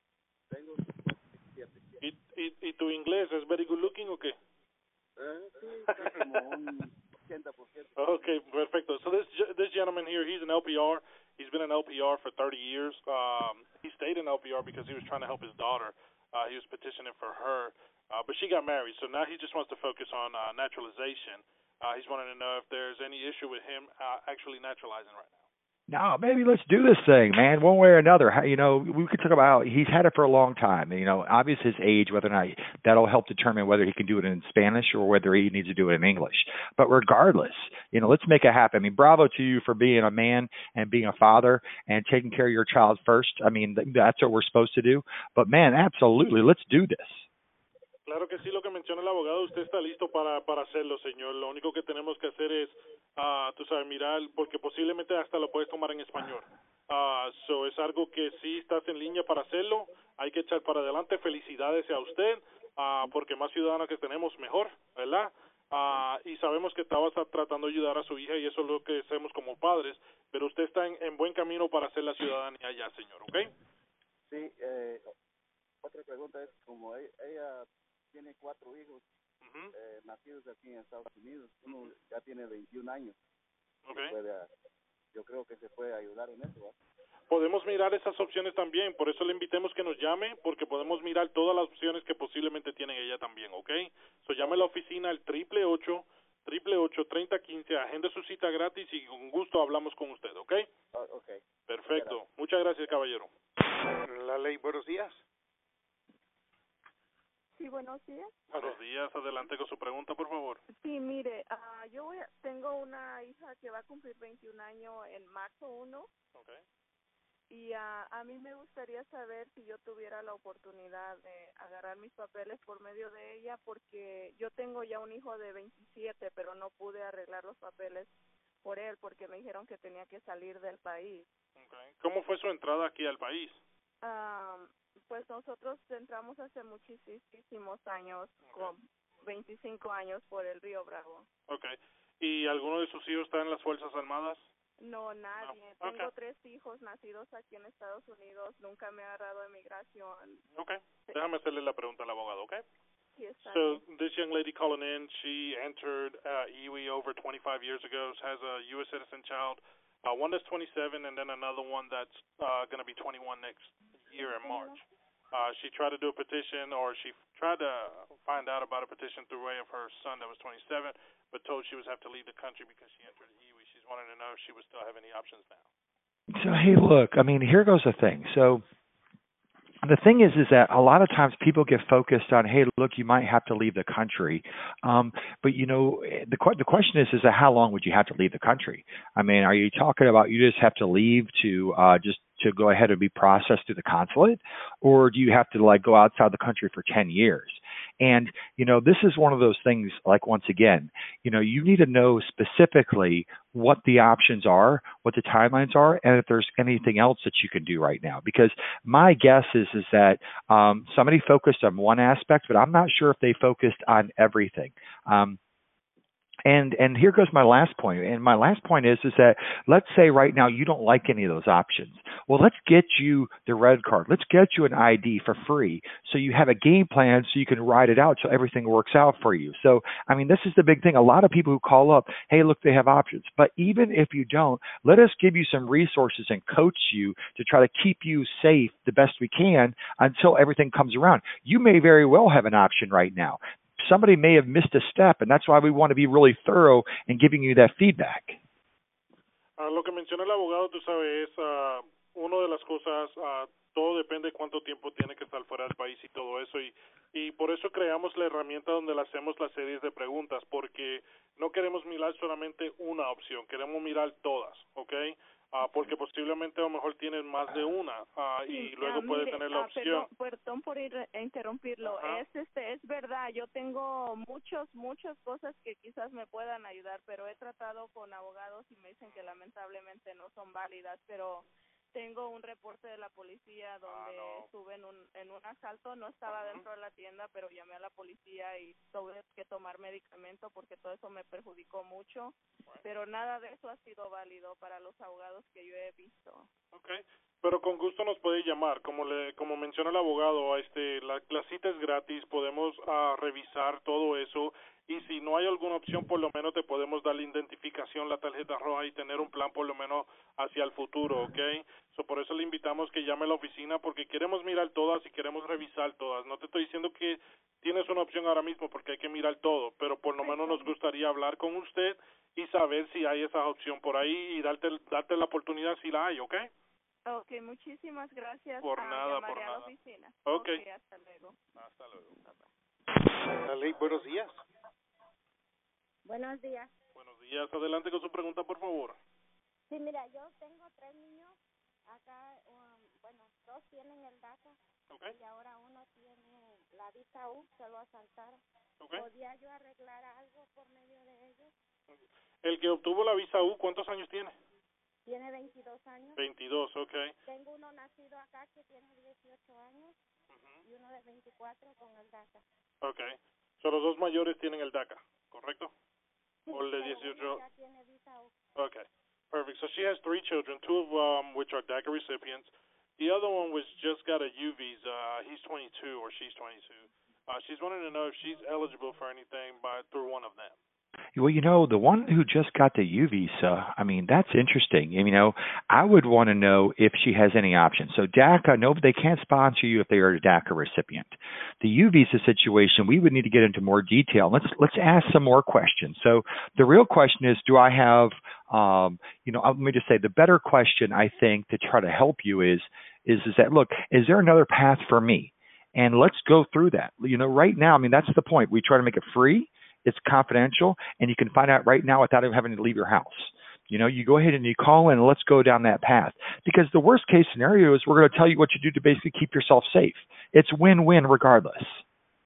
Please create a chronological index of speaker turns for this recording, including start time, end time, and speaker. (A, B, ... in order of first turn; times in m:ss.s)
0:00.5-0:02.0 A
0:02.0-0:04.4 B
0:05.2-0:08.4 A
0:05.9-0:06.4 B
0:08.0-0:25.4 B
0:25.9-0:47.2 C
0:48.0-1:13.5 B
1:14.2-1:15.1 A
1:15.8-1:19.0 A
1:19.4-1:19.7 B
1:19.7-1:23.2 A
1:23.8-1:24.1 B
1:24.0-1:24.5 A
1:25.1-1:26.8 A
1:27.3-1:40.7 B
1:40.9-1:41.4 A
1:41.7-1:43.3 B
1:44.0-1:45.2 D
1:47.6-1:48.3 E
1:48.5-1:50.6 B
1:50.7-1:56.1 E
1:56.3-1:56.6 B
1:57.5-2:08.1 E
2:08.6-2:11.3 E
2:11.6-2:13.6 B
2:14.0-2:21.3 E
2:18.4-2:18.7 B
2:21.5-2:24.4 B
2:24.8-2:30.4 E
2:25.3-2:26.1 B
2:30.6-2:32.6 B
2:33.2-2:33.8 E
2:33.4-2:44.8 B
2:44.4-2:44.7 F
2:45.3-2:55.7 B
2:56.3-2:58.6 C
2:59.8-3:35.4 C
3:36.4-4:08.4 C
4:09.6-4:30.1 B
4:28.5-4:56.5 E
4:31.8-4:32.2 B
4:39.0-4:39.4 B
4:43.8-4:44.5 B
4:46.3-4:46.6 B
4:56.7-5:26.5 B
5:20.2-5:20.7 E
5:27.0-5:31.4 E
5:28.6-5:29.7 B
5:30.2-5:30.6 B
5:31.6-5:32.2 B
5:32.2-5:32.5 E
5:33.4-5:34.4 D
5:36.0-5:36.7 F
5:36.9-5:39.0 B
5:39.7-5:48.4 F
5:48.8-5:49.0 B
5:48.9-5:51.5 F
5:51.9-5:54.3 B
5:55.0-5:56.2 F
5:56.2-5:57.1 B
5:57.2-6:00.0 F
6:00.3-6:00.6 B
6:00.6-6:02.4 F
6:02.8-6:05.7 B
6:06.4-6:08.3 F
6:06.5-6:07.4 B
6:08.6-6:20.6 B
6:21.2-7:01.8 C